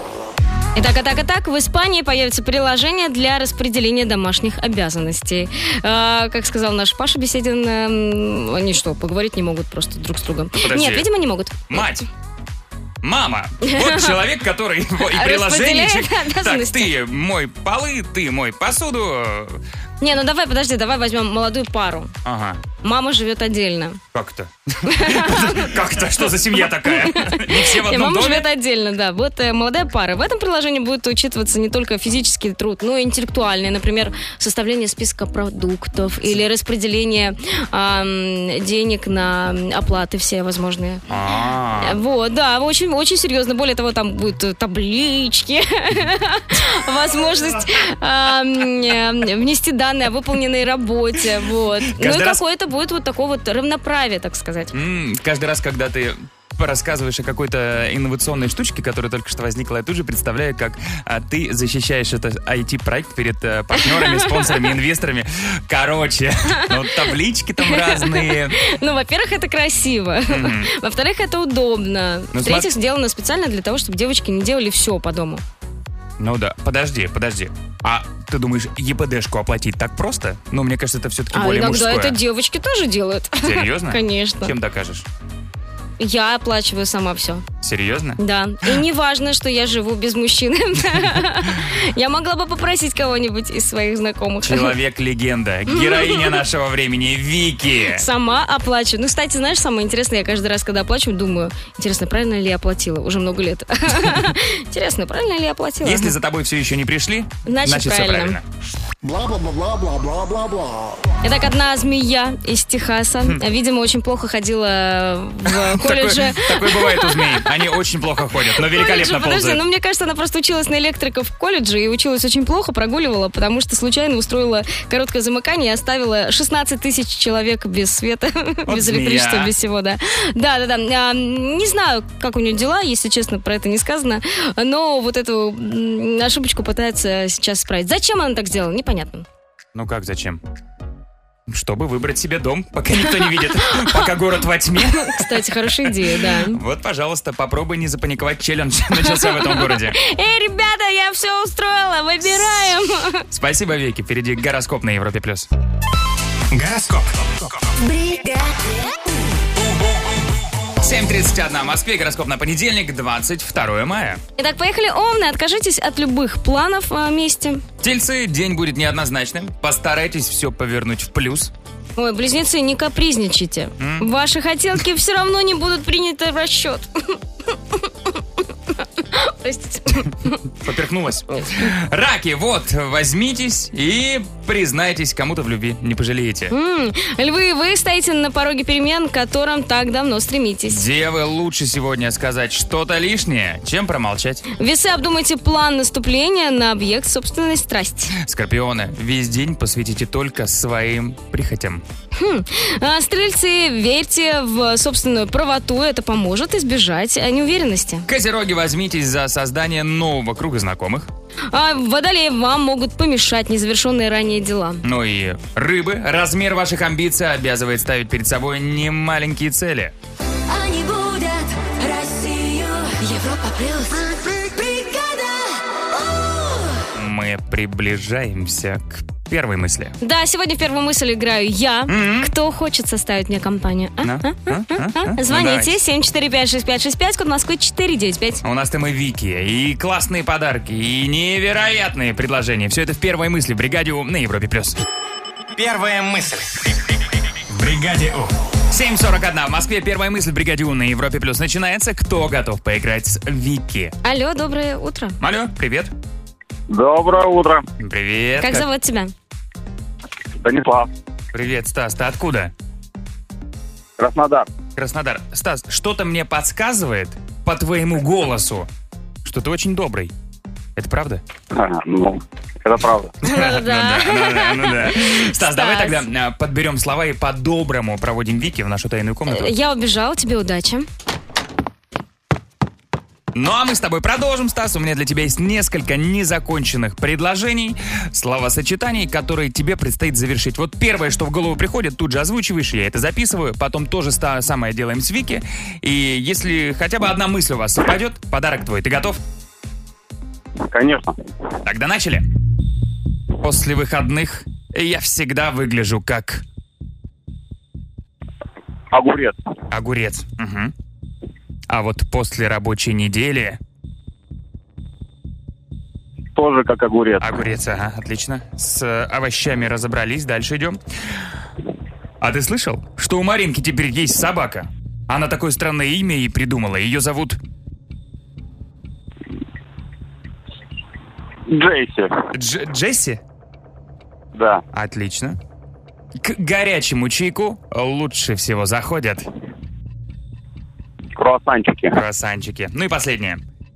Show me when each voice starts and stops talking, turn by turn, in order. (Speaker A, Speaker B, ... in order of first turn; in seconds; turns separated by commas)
Speaker A: 0.7-11.9, Speaker B: 10.6-11.1, Speaker B: 11.7-12.0, Speaker B: 13.0-19.6, Speaker A: 13.7-14.2, Speaker A: 15.0-16.9, Speaker A: 20.0-22.1, Speaker B: 22.2-22.6, Speaker A: 22.8-24.0, Speaker B: 24.1-28.4, Speaker A: 24.9-25.7, Speaker A: 26.5-41.0, Speaker B: 41.1-42.0, Speaker A: 41.8-54.7, Speaker B: 51.9-52.4, Speaker B: 54.7-68.6, Speaker A: 63.8-64.7, Speaker A: 67.6-75.4, Speaker B: 70.3-70.7, Speaker B: 72.3-72.7, Speaker B: 76.2-82.2, Speaker A: 81.3-84.5, Speaker B: 83.4-85.0, Speaker A: 86.0-87.4, Speaker B: 87.6-88.8, Speaker A: 88.2-94.7, Speaker B: 94.4-98.0, Speaker A: 95.7-96.4, Speaker A: 97.9-106.1, Speaker B: 105.8-108.4, Speaker A: 107.5-108.4, Speaker A: 111.2-117.5, Speaker B: 115.5-119.6, Speaker A: 118.6-139.2, Speaker B: 128.7-129.5, Speaker B: 139.7-140.4, Speaker B: 141.5-150.0, Speaker A: 143.1-144.1, Speaker A: 145.0-146.6, Speaker A: 149.1-153.2, Speaker B: 153.3-155.5, Speaker C: 156.5-157.7, Speaker D: 158.0-158.3, Speaker B: 160.8-164.2, Speaker A: 164.4-167.6, Speaker B: 167.8-171.5, Speaker A: 172.0-177.2, Speaker B: 173.8-174.1, Speaker A: 177.7-178.2, Speaker A: 179.0-180.4, Speaker B: 180.6-186.5, Speaker A: 181.3-181.7, Speaker A: 186.5-190.8, Speaker B: 190.7-194.4, Speaker A: 194.6-198.1, Speaker B: 198.2-201.8, Speaker A: 202.1-208.1, Speaker B: 208.1-211.1, Speaker A: 211.5-214.8, Speaker B: 214.8-219.9, Speaker D: 220.5-226.7, Speaker B: 226.9-229.9, Speaker A: 230.0-238.4, Speaker B: 231.9-232.3, Speaker B: 234.0-235.8, Speaker B: 238.4-244.8, Speaker C: 245.6-246.7, Speaker C: 247.5-248.3, Speaker B: 248.7-253.9, Speaker A: 254.0-255.2, Speaker B: 255.2-255.9, Speaker E: 256.7-257.6, Speaker B: 257.8-258.6, Speaker A: 258.4-259.1, Speaker E: 260.4-260.9, Speaker B: 261.3-262.5, Speaker E: 264.0-264.5, Speaker B: 264.8-268.7, Speaker B: 269.2-270.1, Speaker B: 270.8-271.2, Speaker E: 271.5-273.1, Speaker B: 273.2-279.5, Speaker A: 273.2-276.0, Speaker A: 279.3-280.9, Speaker B: 283.3-299.2, Speaker E: 300.7-301.1, Speaker B: 301.6-302.2, Speaker B: 303.4-306.4, Speaker E: 308.9-309.4, Speaker B: 309.7-310.7, Speaker B: 311.7-313.6, Speaker E: 316.3-317.2, Speaker B: 317.2-320.8, Speaker B: 322.2-327.4, Speaker E: 331.5-332.1, Speaker B: 332.3-333.2, Speaker E: 334.3-334.6, Speaker B: 334.7-335.4, Speaker B: 336.2-339.3, Speaker E: 341.2-342.0, Speaker B: 341.9-343.4